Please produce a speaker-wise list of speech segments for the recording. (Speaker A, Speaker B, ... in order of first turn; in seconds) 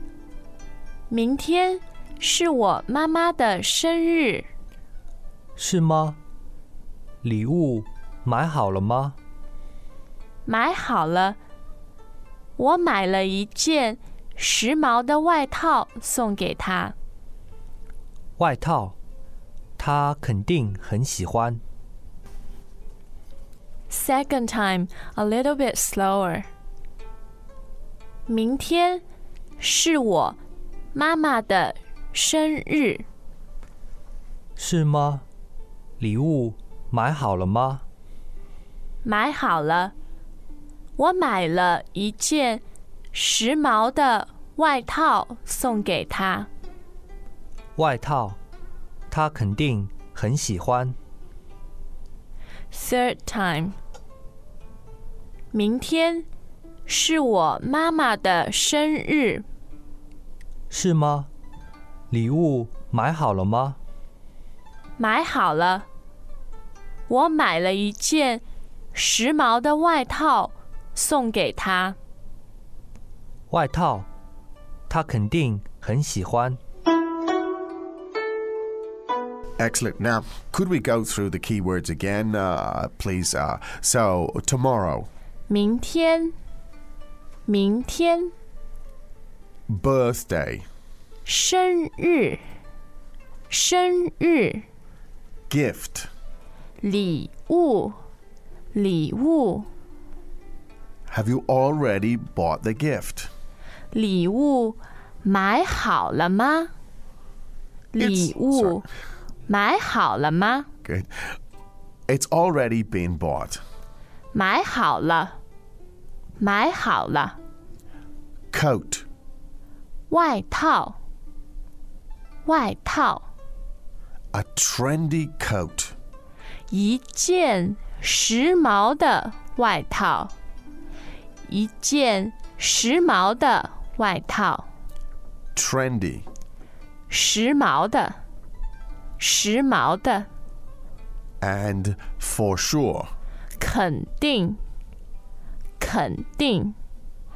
Speaker A: 1.1-4.5, 10.5-11.4, 12.6-16.9, 23.9-26.5, 28.3-29.0, 29.6-30.4, 30.9-33.1, 39.0-39.9, 41.0-46.5, 52.7-53.8, 55.5-56.3, 56.9-59.5, 65.0-65.9, 67.1-68.4, 68.9-72.0, 85.5-86.3, 87.5-88.3, 91.3-92.4, 93.5-94.7, 96.8-98.0, 98.7-99.7, 103.9-106.7, 107.9-108.9, 109.5-110.7, 114.3-115.4, 116.4-117.4, 120.1-121.0, 122.5-123.3, 126.7-130.3, 131.5-134.7, 137.1-138.2, 139.2-140.3, 143.6-144.6, 145.8-146.8
Speaker B: 5.6-6.2, 7.2-9.2, 18.4-18.9, 19.8-21.6, 34.6-35.2, 36.0-37.8, 47.8-48.4, 49.1-51.0, 60.7-61.3, 62.1-63.8, 73.5-74.1, 74.9-76.6
Speaker C: 79.6-85.1, 89.7-90.7, 95.5-96.1, 101.1-103.3, 108.0-108.8, 110.8-111.1, 112.1-113.6, 118.5-119.1, 124.3-126.0, 135.6-136.3, 141.4-143.1